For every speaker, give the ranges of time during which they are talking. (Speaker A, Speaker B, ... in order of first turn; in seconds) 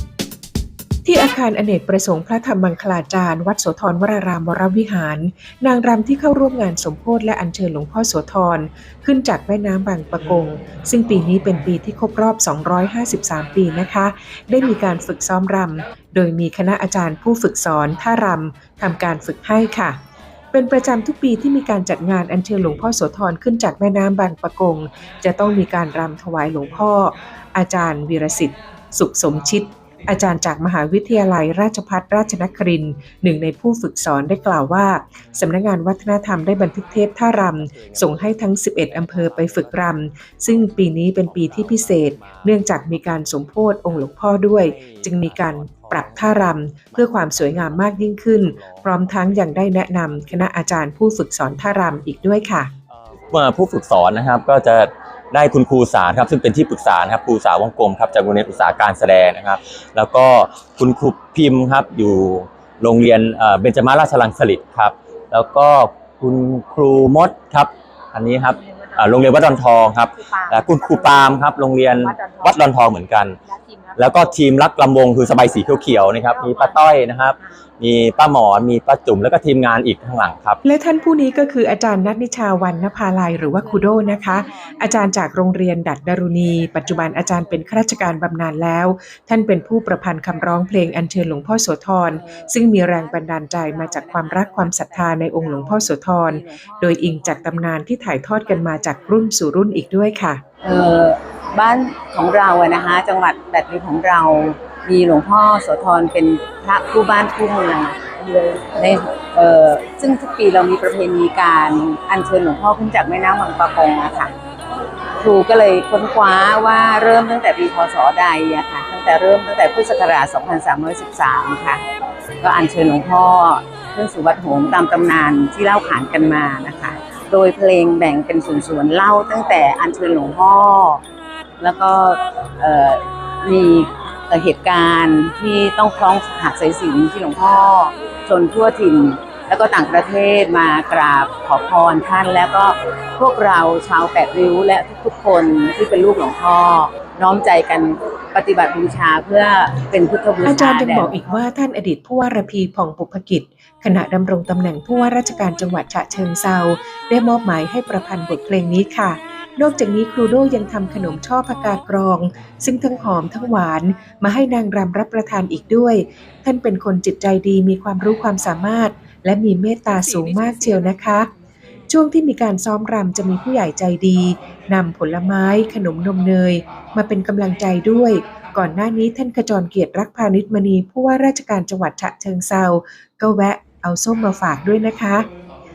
Speaker A: 1.0-20.0, 20.5-52.7, 80.6-100.4, 150.4-171.3, 171.9-185.3
Speaker B: 53.3-73.4, 74.0-80.6
Speaker C: 68.8-72.7, 73.5-74.3, 76.0-76.9, 83.5-84.9, 92.1-97.8, 98.4-99.2, 100.6-114.3, 115.2-121.8, 122.4-131.0, 131.6-151.2